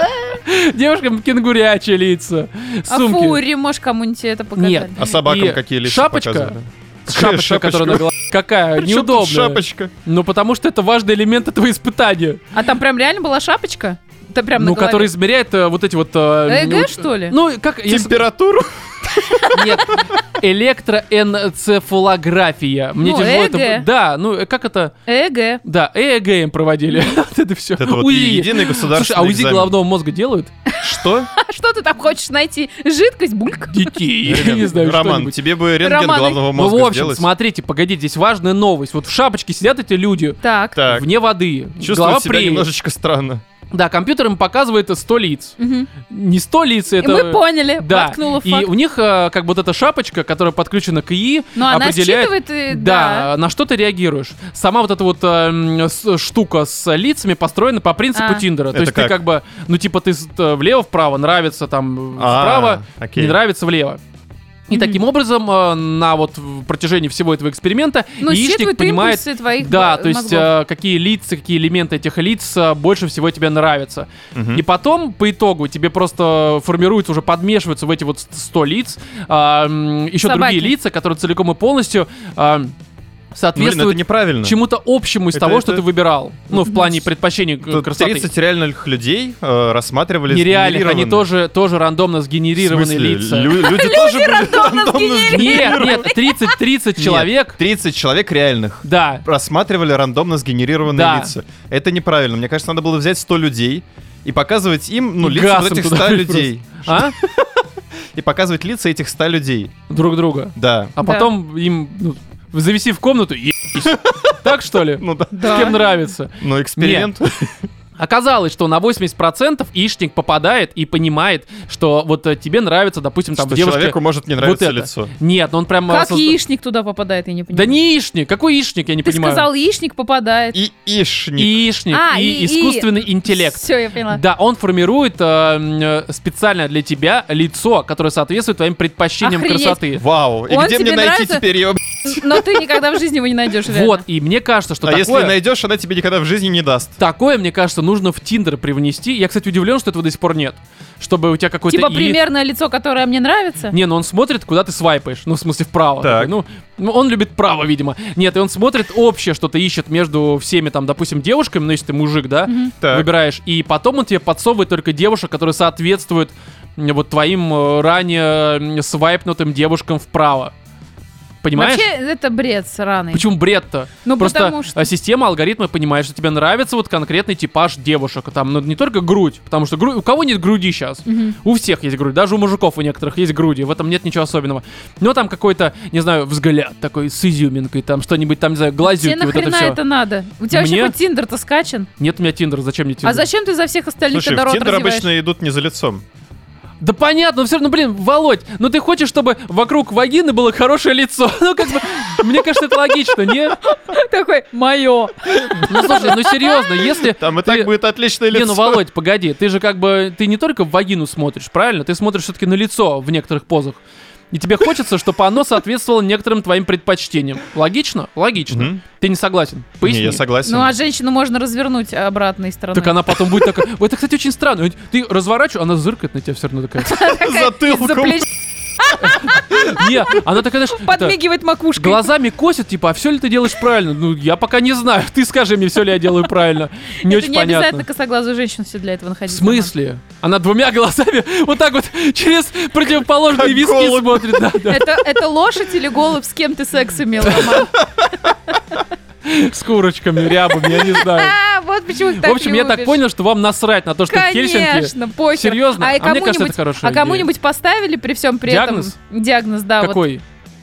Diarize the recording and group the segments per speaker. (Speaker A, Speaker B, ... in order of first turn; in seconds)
Speaker A: 0.3-3.4, 4.6-6.6, 7.1-12.4, 14.6-18.2, 19.5-24.9, 25.6-30.5, 33.7-35.4, 36.5-42.7, 43.7-64.0, 64.7-82.8, 83.3-88.3, 90.3-93.7, 95.3-97.6, 98.8-99.2, 100.9-101.3, 105.2-107.2, 109.9-117.1, 118.0-126.4, 127.5-129.5, 131.4-140.0, 143.7-145.3, 147.0-152.2, 153.7-170.5, 171.4-171.9, 173.1-189.8, 190.5-190.9, 192.0-193.3, 196.8-203.6, 205.6-207.7, 208.3-213.8, 214.3-220.2, 222.7-227.0, 229.0-231.2, 231.8-237.9, 239.3-244.9, 249.2-251.4, 252.2-257.3, 258.5-258.9, 259.8-260.2
Speaker B: 2.9-5.0, 12.5-15.1, 16.5-17.4, 19.1-19.6, 23.0-23.9, 25.1-25.6, 30.7-33.9, 35.8-36.5, 40.4-40.8, 45.6-45.9, 47.0-48.7, 51.6-53.3, 58.1-58.5, 64.7-65.0, 68.2-70.5, 80.2-80.7, 86.7-87.0, 93.6-96.5, 111.0-111.3, 115.3-115.9, 125.9-127.8, 129.1-130.6, 131.9-134.2, 139.2-139.9, 140.5-141.4, 142.0-144.0, 151.7-153.8, 162.5-162.7, 171.6-173.3, 174.1-174.9, 181.1-181.4, 188.8-191.9, 193.0-195.1, 203.6-206.9, 220.4-223.4, 226.8-232.1, 237.0-239.7, 244.7-248.0, 250.5-253.0, 254.1-260.0
Speaker C: 5.0-8.1, 8.8-9.9, 17.9-19.2, 27.8-29.7, 30.8-31.3, 34.3-37.3, 40.8-41.1, 41.8-43.4, 58.7-59.2, 62.2-63.4, 74.3-74.6, 83.5-84.6, 85.3-85.8, 87.7-91.3, 92.6-96.1, 97.0-109.8, 110.6-110.9, 113.8-114.4, 115.0-115.8, 116.4-117.6, 123.4-125.1, 130.5-131.7, 139.9-142.6, 144.8-147.0, 156.0-156.3, 162.8-163.1, 194.1-196.0, 207.1-208.8, 218.5-218.8, 219.8-220.7, 227.1-228.3, 243.2-244.4, 247.8-248.3